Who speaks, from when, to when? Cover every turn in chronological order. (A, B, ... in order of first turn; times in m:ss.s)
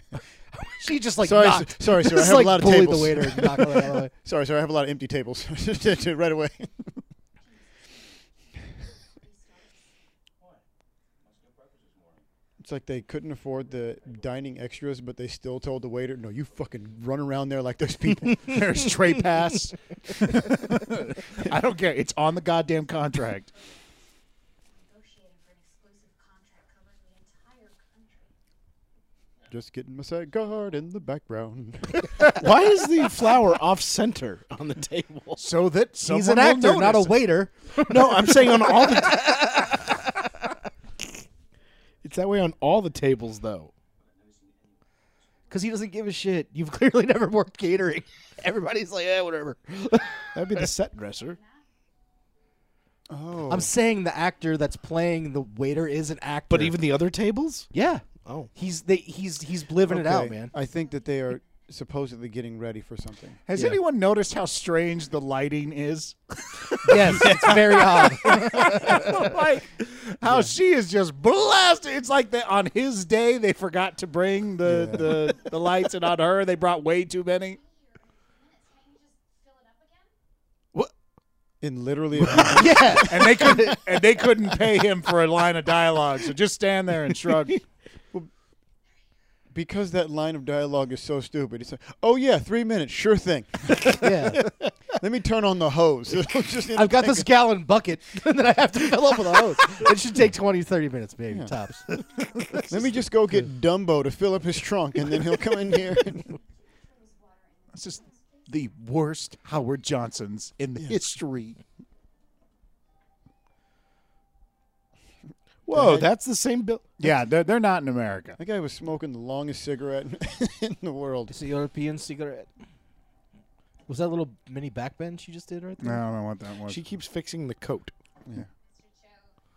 0:00.7-0:04.1 A
0:01.2-0:07.0 B
0:08.9-0:09.7 C
0:12.6-0:18.6 B
0:18.4-0:23.5 D
0:24.7-0:28.3 C
0:29.5-0:32.3 B
0:32.3-0:35.4 E
0:35.4-0:37.2 D
0:36.0-0:40.0 A
0:37.9-0:39.4 E
0:42.0-0:43.7 E
0:45.5-0:50.7 A
0:50.3-0:51.4 E
0:51.3-0:51.6 C
0:53.1-0:53.7 B
0:53.5-0:56.8 A
0:56.5-0:57.7 E
0:57.7-1:00.5 A
0:58.2-0:58.5 E
0:59.8-1:03.4 B
1:03.5-1:17.6 D
1:06.8-1:09.1 A
1:14.6-1:15.4 B
1:17.5-1:20.1 C
1:21.6-1:23.8 B
1:22.3-1:27.6 D
1:22.3-1:23.8 A
1:29.5-1:34.0 B
1:33.9-1:34.7 E
1:34.0-1:34.5 A
1:35.0-1:37.3 B
1:36.7-1:42.0 A
1:42.7-1:46.3 B
1:46.0-1:48.6 C
1:47.7-1:51.6 D
1:55.6-1:56.8 E
1:55.7-1:56.1 B
1:57.0-1:58.4 D
1:58.4-2:01.3 B
2:01.3-2:02.5 A
2:03.9-2:06.0 A
2:05.8-2:06.8 D
2:06.7-2:07.9 E
2:08.6-2:09.3 C